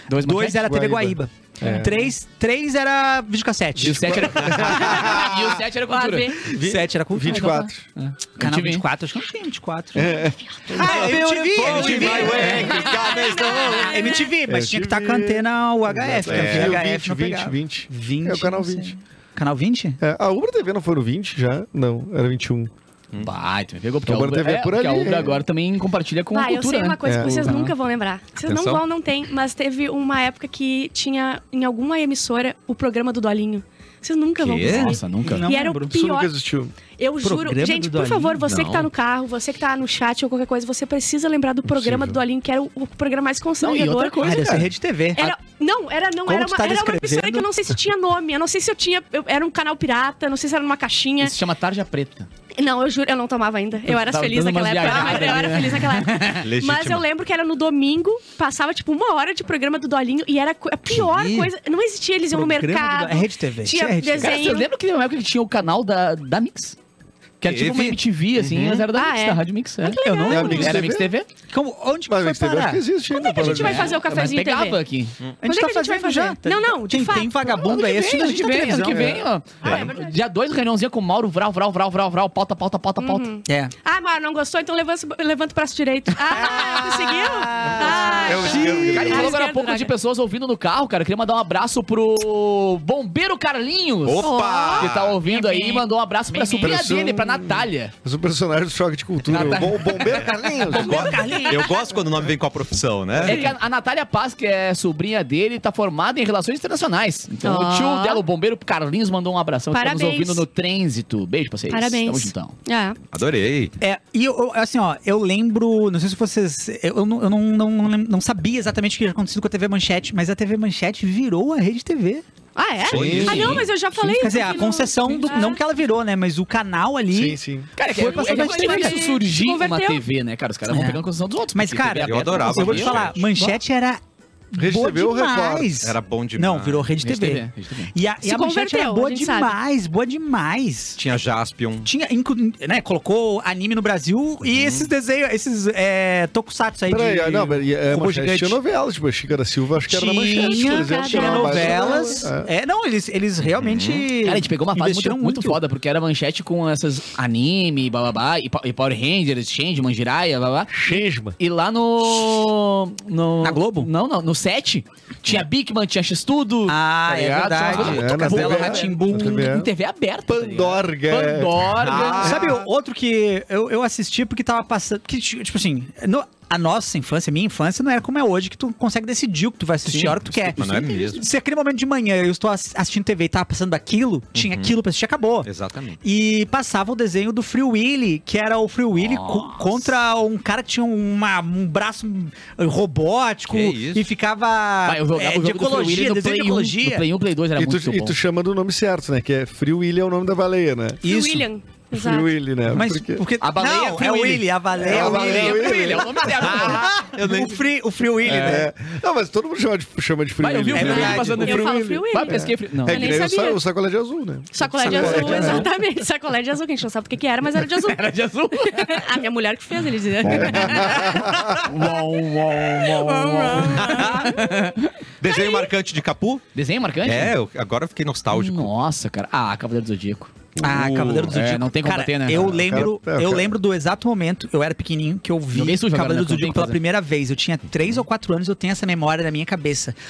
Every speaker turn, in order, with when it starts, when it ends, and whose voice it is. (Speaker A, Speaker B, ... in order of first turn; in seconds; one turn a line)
Speaker A: 0.1-0.7
Speaker B: 0.2-5.0
Speaker C: 0.5-2.1
Speaker C: 3.8-5.6
Speaker A: 3.8-6.4
Speaker D: 5.9-6.5
Speaker C: 6.5-7.9
Speaker B: 6.5-7.7
Speaker A: 7.3-8.8
Speaker B: 8.4-20.0
Speaker C: 9.9-19.0
Speaker E: 10.8-13.7
Speaker D: 12.5-14.3
Speaker E: 16.3-16.8
Speaker C: 20.0-22.7
Speaker A: 23.2-27.7
Speaker C: 24.1-25.4
Speaker D: 26.3-36.3
Speaker C: 27.0-27.6
Speaker C: 28.5-28.8
Speaker E: 34.4-35.0
Speaker A: 34.6-35.5
Speaker B: 35.2-36.0
Speaker C: 35.9-36.7
Speaker D: 37.0-44.3
Speaker B: 37.2-38.4
Speaker E: 38.5-38.9
Speaker C: 41.6-42.2
Speaker A: 43.6-44.7
Speaker B: 44.2-45.4
Speaker D: 45.2-51.4
Speaker B: 46.3-47.5
Speaker A: 51.2-52.3
Speaker D: 52.5-64.7
Speaker A: 53.9-56.4
Speaker E: 56.4-57.1
Speaker E: 60.9-61.5
Speaker B: 62.3-64.4
Speaker A: 64.2-66.8
Speaker A: 67.4-71.3
Speaker E: 67.5-68.8
Speaker D: 68.9-70.8
Speaker C: 70.3-71.1
Speaker B: 71.5-72.8
Speaker C: 72.1-74.0
Speaker D: 73.1-74.8
Speaker A: 73.4-75.2
Speaker B: 75.4-79.2
Speaker D: 75.4-78.2
Speaker A: 77.7-83.3
Speaker D: 79.6-80.2
Speaker E: 79.6-79.9
Speaker D: 83.0-89.9
Speaker B: 83.5-83.7
Speaker B: 86.3-89.0
Speaker C: 87.7-89.3
Speaker A: 88.8-97.9
Speaker E: 94.0-95.2
Speaker D: 94.2-95.8
Speaker B: 95.6-96.7
Speaker C: 96.6-101.2
Speaker A: 99.3-100.2
Speaker B: 100.7-101.7
Speaker E: 100.8-103.5
Speaker D: 101.0-101.6
Speaker A: 103.2-112.6
Speaker D: 107.4-108.2
Speaker D: 109.7-110.4
Speaker D: 111.7-113.0
Speaker E: 113.1-113.7
Speaker B: 113.8-122.2
Speaker D: 122.5-125.6
Speaker E: 122.9-123.7
Speaker A: 122.9-123.7
Speaker C: 122.9-123.6
Speaker B: 123.9-129.0
Speaker C: 127.1-127.7
Speaker A: 127.8-133.5
Speaker D: 128.0-130.0
Speaker B: 130.7-131.0
Speaker B: 131.5-134.0
Speaker E: 132.0-133.2
Speaker B: 134.5-141.0
Speaker C: 134.6-135.9
Speaker E: 135.8-136.9
Speaker A: 137.0-137.9
Speaker D: 138.2-139.6
Speaker E: 141.0-141.9
Speaker B: 141.8-148.6
Speaker E: 144.4-144.9
Speaker C: 146.9-152.5
Speaker B: 149.9-155.6
Speaker D: 150.3-152.3
Speaker E: 153.6-154.1
Speaker A: 154.2-172.4
Speaker C: 160.7-161.4
Speaker B: 163.4-163.9
Speaker B: 166.7-169.6
Speaker C: 167.7-169.7
Speaker C: 170.3-172.4
Speaker E: 171.8-172.6
Speaker B: 172.0-185.5
Speaker A: 179.9-181.1
Speaker E: 180.5-181.3
Speaker E: 184.3-184.7
Speaker E: 185.4-186.0
Speaker B: 186.0-197.1
Speaker A: 189.0-189.9
Speaker E: 193.5-194.1
Speaker A: 194.9-198.2
Speaker C: 197.6-201.0
Speaker B: 201.0-201.5
Speaker D: 201.0-202.3
Speaker C: 201.9-203.2
Speaker B: 202.7-208.7
Speaker A: 203.4-207.0
Speaker C: 204.8-206.8
Speaker E: 207.1-207.6
Speaker C: 208.3-215.7
Speaker A: 208.3-208.7
Speaker A: 210.4-213.2
Speaker B: 210.7-211.7
Speaker D: 211.4-213.6
Speaker D: 214.5-218.0
Speaker A: 214.9-215.7
Speaker B: 215.2-215.6
Speaker A: 217.5-219.2
Speaker D: 218.6-224.7
Speaker A: 220.2-224.9
Speaker C: 220.2-221.7
Speaker E: 223.8-224.3
Speaker E: 225.2-226.4
Speaker D: 225.3-225.7
Speaker A: 226.6-227.3
Speaker E: 227.0-228.7
Speaker A: 228.3-230.3
Speaker B: 230.6-239.9
Speaker E: 230.6-231.4
Speaker A: 231.3-232.5
Speaker C: 232.3-233.5
Speaker A: 235.5-236.8